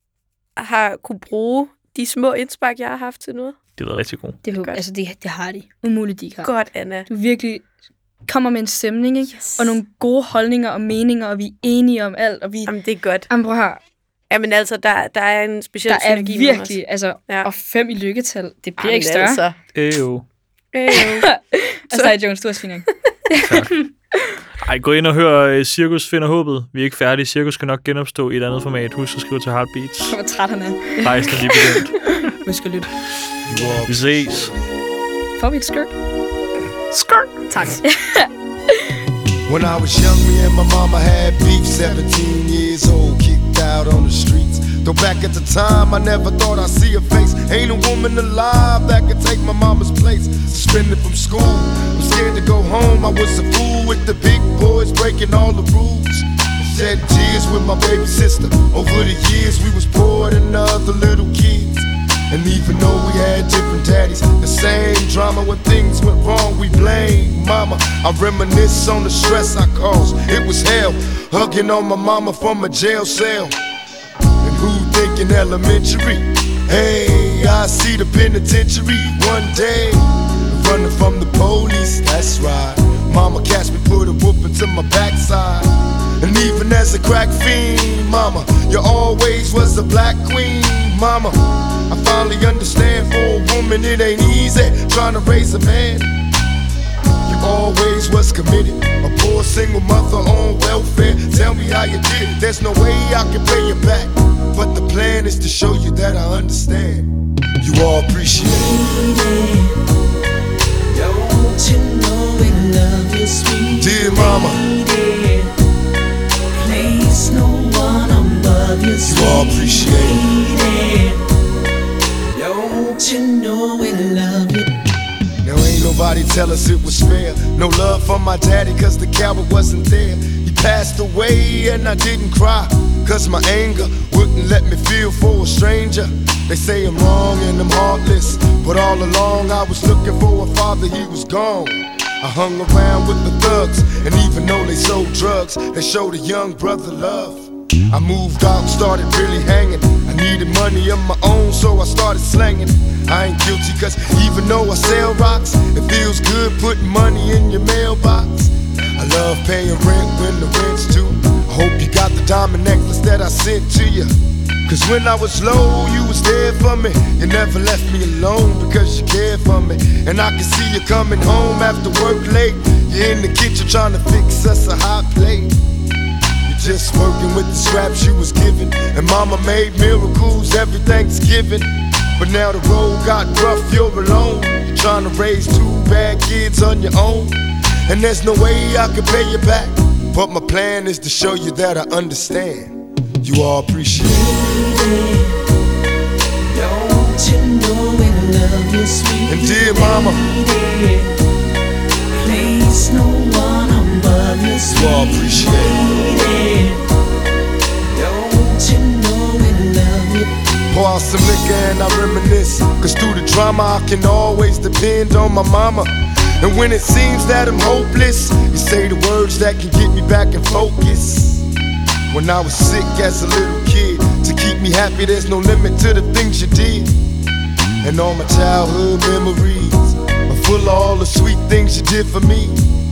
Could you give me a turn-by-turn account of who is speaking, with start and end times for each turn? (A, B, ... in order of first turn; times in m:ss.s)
0:00.6-0:03.6 A
0:03.8-0:04.4 B
0:04.4-0:06.5 C
0:04.5-0:04.8 A
0:06.4-0:07.1 A
0:07.1-0:07.6 C
0:08.2-0:12.7 C
0:12.6-0:13.3 A
0:13.3-0:13.8 C
0:14.3-0:17.5 A
0:15.9-0:19.4 C
0:18.8-0:19.6 A
0:19.7-0:20.2 B
0:20.7-0:21.3 A
0:21.0-0:23.9 C
0:21.9-0:22.2 A
0:23.4-0:23.7 B
0:24.6-0:30.2 B
0:30.1-0:32.9 C
0:31.0-0:32.2 B
0:33.4-0:34.5 D
0:33.8-0:34.5 B
0:35.4-0:35.9 C
0:36.9-0:37.3 B
0:37.5-0:37.8 A
0:37.9-0:38.3 C
0:39.5-1:13.5 D
1:14.4-1:36.1 D
1:37.2-1:47.1 D
1:47.6-1:49.0 D
1:48.4-1:49.7 E
1:50.9-1:55.5 E
1:53.7-1:54.6 D
1:56.6-2:01.2 E
1:59.0-2:00.3 D
2:02.3-2:04.7 E
2:05.4-2:44.1 D
2:44.6-2:55.6 D
2:56.4-3:14.3 D
3:14.1-3:15.3 E
3:16.5-3:21.1 E
3:19.3-3:20.3 D
3:22.2-3:26.8 E
3:24.7-3:25.8 D
3:27.9-3:30.3 E
3:30.7-3:41.4 D
3:42.1-3:47.0 D
3:47.8-3:52.6 D